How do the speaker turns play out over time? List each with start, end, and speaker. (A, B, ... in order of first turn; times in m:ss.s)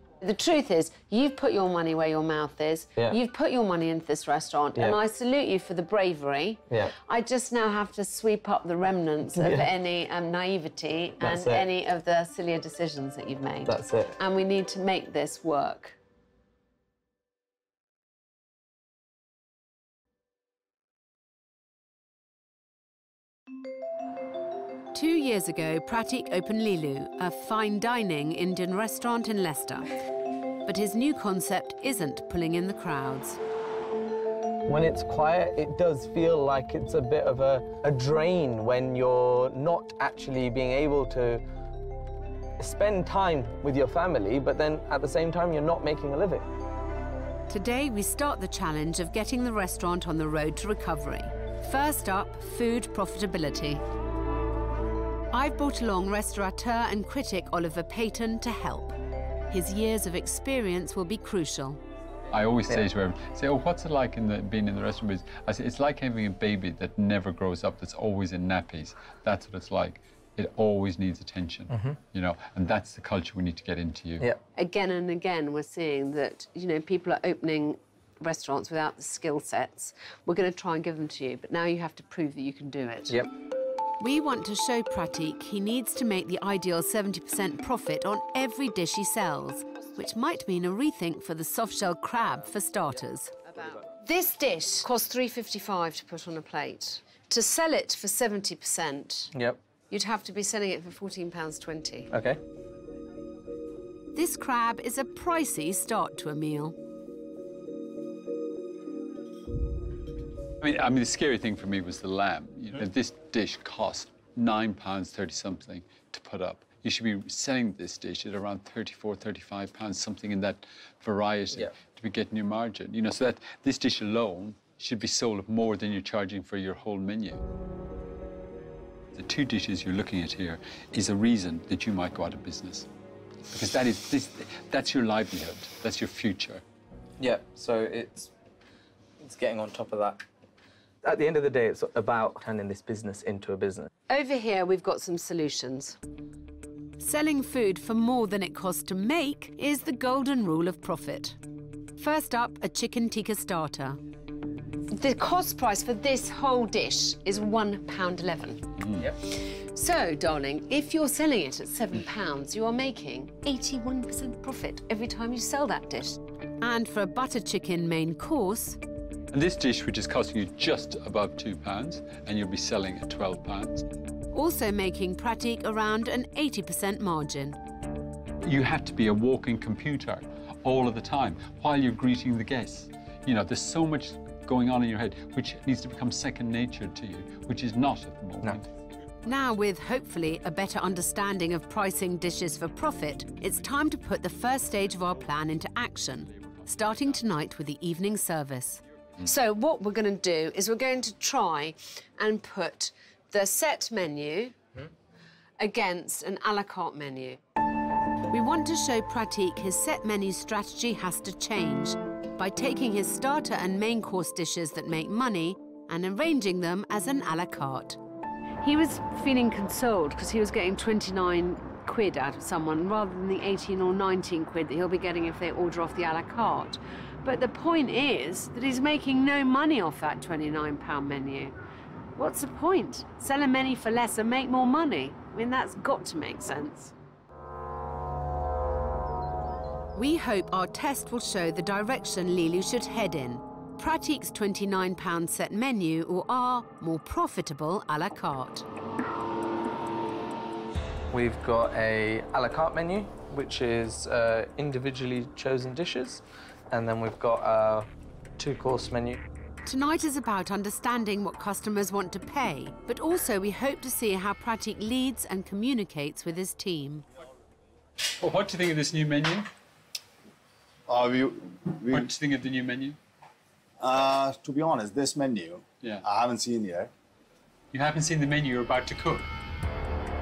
0:00.2-0:16.0 A
0:06.7-0:06.9 B
0:09.3-0:09.7 B
0:11.2-0:11.7 B
0:13.6-0:14.2 B
0:24.9-0:29.9 C
0:30.6-0:33.4 C
0:34.6-0:41.4 B
0:42.6-0:46.4 B
0:47.5-0:53.8 C
0:55.3-0:58.9 C
0:59.5-1:01.8 C
1:02.3-1:14.3 D
1:11.7-1:12.0 B
1:14.6-1:23.2 A
1:24.0-1:33.3 C
1:33.5-1:33.8 B
1:34.0-1:39.3 A
1:39.3-1:39.6 B
1:39.9-1:42.1 A
1:42.1-1:42.4 B
1:44.1-1:46.7 C
1:50.6-2:07.4 D
2:09.1-2:12.9 D
2:13.5-2:16.6 D
2:17.2-2:18.3 B
2:19.2-2:20.2 B
2:21.0-2:23.9 B
2:24.1-2:26.0 A
2:27.0-2:31.4 C
2:32.0-2:34.0 C
2:34.9-2:46.2 A
2:46.6-2:48.8 C
2:49.3-2:53.8 D
2:54.3-2:57.6 C
2:58.4-3:08.7 D
3:09.2-3:18.8 C
3:19.2-3:24.6 A
3:25.6-3:27.4 A
3:28.3-3:38.0 C
3:38.6-3:51.5 A
3:52.2-3:56.9 A
3:59.9-4:08.6 C
4:11.1-4:19.2 B
4:19.6-4:27.0 C
4:28.2-4:29.5 D
4:30.9-4:32.1 E
4:31.9-4:33.0 D
4:33.8-4:36.9 E
4:37.7-4:39.3 D